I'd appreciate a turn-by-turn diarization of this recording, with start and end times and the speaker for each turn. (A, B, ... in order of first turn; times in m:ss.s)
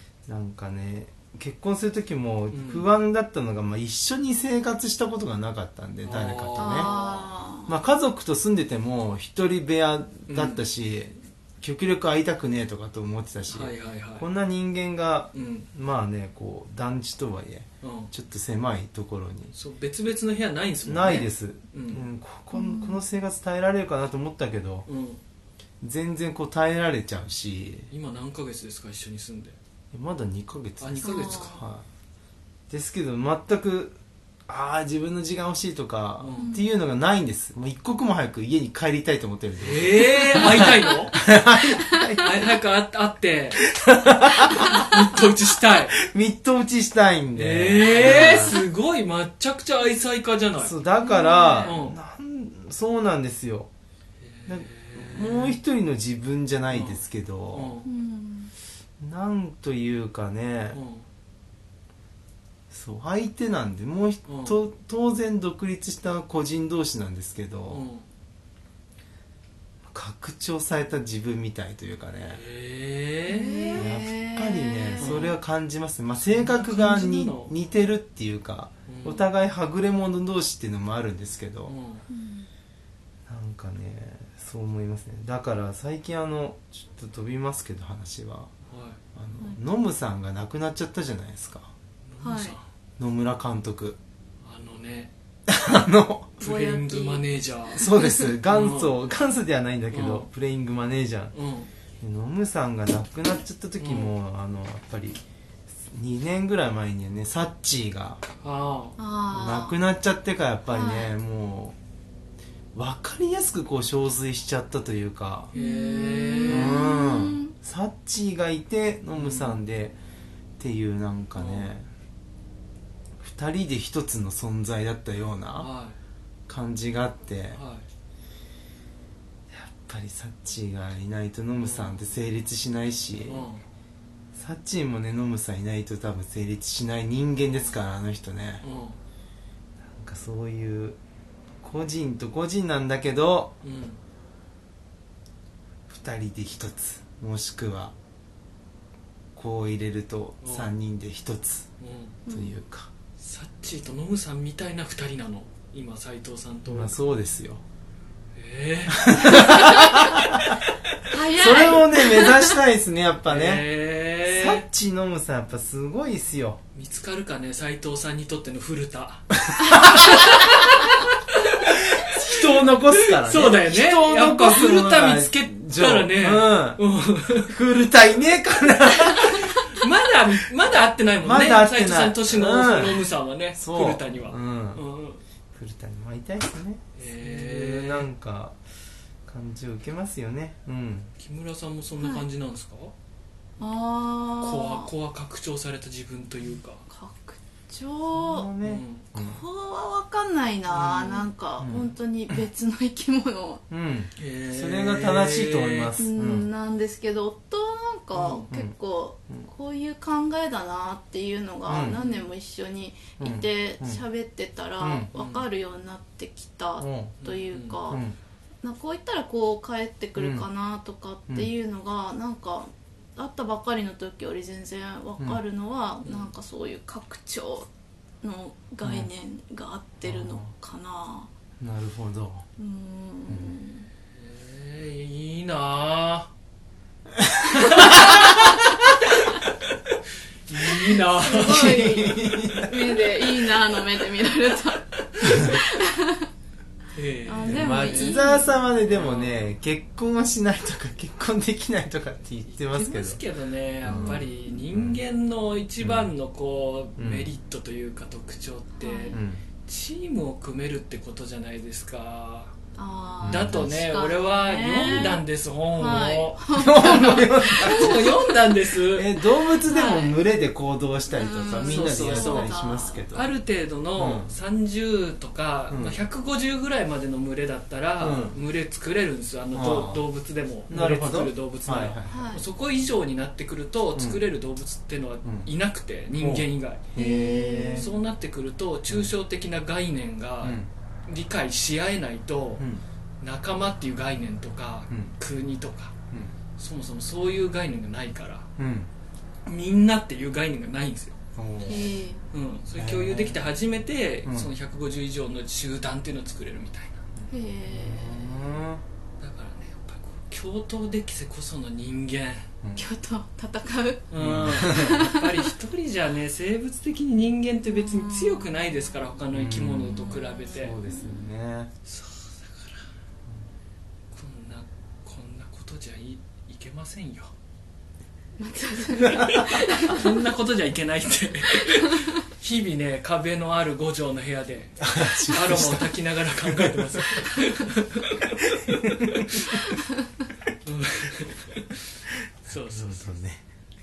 0:00.3-0:06.9 A
0:02.5-0:02.9 B
0:06.0-0:07.3 B
0:06.6-0:07.7 C
0:07.7-0:19.5 A
0:10.3-0:10.6 B
0:13.5-0:14.3 B
0:15.3-0:15.7 B
0:17.8-0:18.1 B
0:19.5-0:22.1 B
0:20.9-0:24.9 A
0:22.5-0:23.0 C
0:24.9-0:25.2 B
0:25.8-0:27.9 A
0:27.9-0:29.6 B
0:29.9-0:31.9 A
0:30.8-0:31.6 B
0:31.0-0:31.6 C
0:32.7-0:42.5 A
0:36.2-0:36.5 B
0:36.4-0:36.7 C
0:39.6-0:41.2 B
0:40.2-0:41.0 C
0:41.8-0:42.2 C
0:42.2-0:43.6 B
0:43.6-0:45.2 A
0:44.5-0:44.9 C
0:44.5-0:46.0 B
0:45.9-0:48.6 A
0:47.4-0:50.8 B
0:47.9-0:48.6 C
0:50.6-0:53.7 A
0:51.0-0:51.8 C
0:51.6-0:52.0 B
0:54.2-0:55.6 B
0:54.5-0:57.7 A
0:56.7-0:57.0 B
0:57.5-0:57.9 B
0:57.8-0:58.5 C
0:59.0-1:00.8 A
1:00.7-1:01.1 B
1:02.7-1:07.8 A
1:04.3-1:04.6 B
1:07.7-1:08.0 B
1:09.9-1:12.4 A
1:12.3-1:13.8 B
1:13.3-1:15.3 C
1:13.8-1:21.7 A
1:15.0-1:15.4 B
1:16.2-1:17.5 B
1:18.9-1:19.2 B
1:21.7-1:22.0 B
1:22.1-1:22.5 C
1:23.3-1:28.5 A
1:28.7-1:29.0 B
1:29.1-1:31.7 A
1:32.1-1:32.6 B
1:32.2-1:32.6 C
1:33.0-1:34.0 A
1:34.4-1:35.1 B
1:35.5-1:36.4 A
1:36.4-1:37.8 B
1:36.4-1:38.3 C
1:37.8-1:41.3 A
1:38.5-1:38.9 B
1:39.9-1:40.3 B
1:41.3-1:41.7 B
1:42.0-1:45.2 A
1:43.8-1:44.1 B
1:45.8-1:48.2 A
1:48.4-1:49.0 B
1:49.0-1:49.8 C
1:49.3-1:51.8 A
1:50.7-1:51.1 C
1:52.8-1:55.5 A
1:55.5-1:56.8 B
1:55.6-1:57.6 C
1:56.5-2:00.0 A
1:59.2-1:59.6 B
2:00.6-2:01.9 A
2:01.4-2:01.7 B
2:03.2-2:05.7 A
2:05.6-2:06.0 B
2:06.5-2:07.6 A
2:07.5-2:07.9 B
2:09.5-2:13.5 A
2:11.6-2:12.0 B
2:13.3-2:13.6 B
2:14.3-2:18.6 A
2:18.6-2:19.0 B
2:19.8-2:21.0 A
2:21.6-2:23.6 A
2:23.6-2:24.0 B
2:25.9-2:28.0 A
2:29.4-2:31.7 A
2:30.4-2:30.7 B
2:31.8-2:32.2 B
2:32.3-2:32.6 C
2:32.3-2:32.9 A
2:33.2-2:37.0 B
2:36.7-2:37.6 A
2:38.4-2:40.5 B
2:38.9-2:40.6 A
2:39.4-2:40.0 C
2:41.1-2:42.6 C
2:41.3-2:43.7 A
2:43.3-2:44.6 B
2:44.2-2:46.6 A
2:46.8-2:57.6 B
2:49.4-2:50.6 A
2:49.6-2:51.0 C
2:51.6-2:56.8 A
2:57.4-2:59.6 A
2:59.2-3:05.2 B
3:01.2-3:04.8 A
3:05.5-3:08.6 A
3:07.0-3:08.1 B
3:09.3-3:11.1 A
3:11.2-3:12.9 B
3:12.0-3:12.2 C
3:13.6-3:14.9 C
3:14.4-3:16.8 B
3:16.9-3:18.5 C
3:18.1-3:19.4 A
3:18.6-3:19.0 B
3:19.2-3:23.6 C
3:20.7-3:21.3 B
3:21.6-3:22.4 A
3:23.7-3:26.5 A
3:24.2-3:25.9 B
3:26.0-3:38.0 C
3:28.1-3:28.5 B
3:31.7-3:32.0 A
3:31.9-3:32.2 B
3:33.2-3:34.0 A
3:34.8-3:35.1 A
3:35.1-3:35.4 B
3:36.8-3:37.1 A
3:37.2-3:37.8 B
3:37.9-3:38.2 A
3:38.6-3:47.7 C
3:40.2-3:40.4 A
3:46.0-3:46.3 B
3:48.2-3:51.3 C
3:48.8-3:49.1 A
3:50.0-3:50.5 A
3:51.6-3:52.5 A
3:52.6-3:53.9 C
3:53.3-3:53.6 A
3:54.1-3:56.3 B
3:57.2-3:58.3 A
3:57.5-3:59.4 C
3:57.6-3:59.9 B
4:00.5-4:01.9 B
4:00.7-4:06.3 C
4:01.3-4:03.1 A
4:05.2-4:05.6 A
4:07.0-4:08.2 B
4:07.3-4:08.5 C
4:07.5-4:13.2 A
4:08.9-4:09.5 B
4:12.5-4:22.6 B
4:13.8-4:15.0 A
4:13.9-4:14.2 C
4:15.8-4:16.1 A
4:17.0-4:17.3 A
4:18.8-4:19.2 C
4:19.1-4:19.4 A
4:22.8-4:28.5 C
4:23.2-4:23.7 A
4:23.2-4:29.1 B
4:26.5-4:28.2 A
4:28.9-4:33.3 A
4:29.6-4:30.2 C
4:31.1-4:33.0 C
4:31.6-4:32.5 B
4:33.1-4:46.8 B
4:34.0-4:34.3 A
4:35.7-4:36.0 A
4:38.0-4:38.4 A
4:39.5-4:40.0 A
4:40.7-4:42.3 A
4:42.1-4:42.5 C
4:45.2-4:45.5 A
4:46.2-4:47.9 A
4:47.0-4:47.9 C
4:47.8-4:52.6 B
4:50.4-4:50.7 A
4:52.6-4:52.8 A
4:53.2-4:56.0 B
4:56.6-4:58.5 B
4:58.6-4:58.9 A
4:59.5-5:01.2 B
5:01.4-5:01.9 A
5:01.6-5:02.2 C
5:02.3-5:07.1 B
5:02.8-5:03.4 A
5:04.2-5:04.5 A
5:07.3-5:08.4 C
5:07.7-5:08.8 A
5:09.2-5:12.5 B
5:12.8-5:15.5 C
5:14.1-5:20.8 B
5:14.2-5:15.1 A
5:17.8-5:18.5 C
5:19.3-5:21.7 A
5:20.1-5:21.1 C
5:21.8-5:22.8 B
5:24.1-5:27.3 B
5:28.4-5:30.2 C
5:29.1-5:29.5 A
5:29.4-5:39.6 B
5:31.8-5:32.1 C
5:34.8-5:37.3 A
5:38.4-5:39.4 A
5:39.5-5:40.3 C
5:40.6-5:43.2 B
5:42.7-5:43.4 A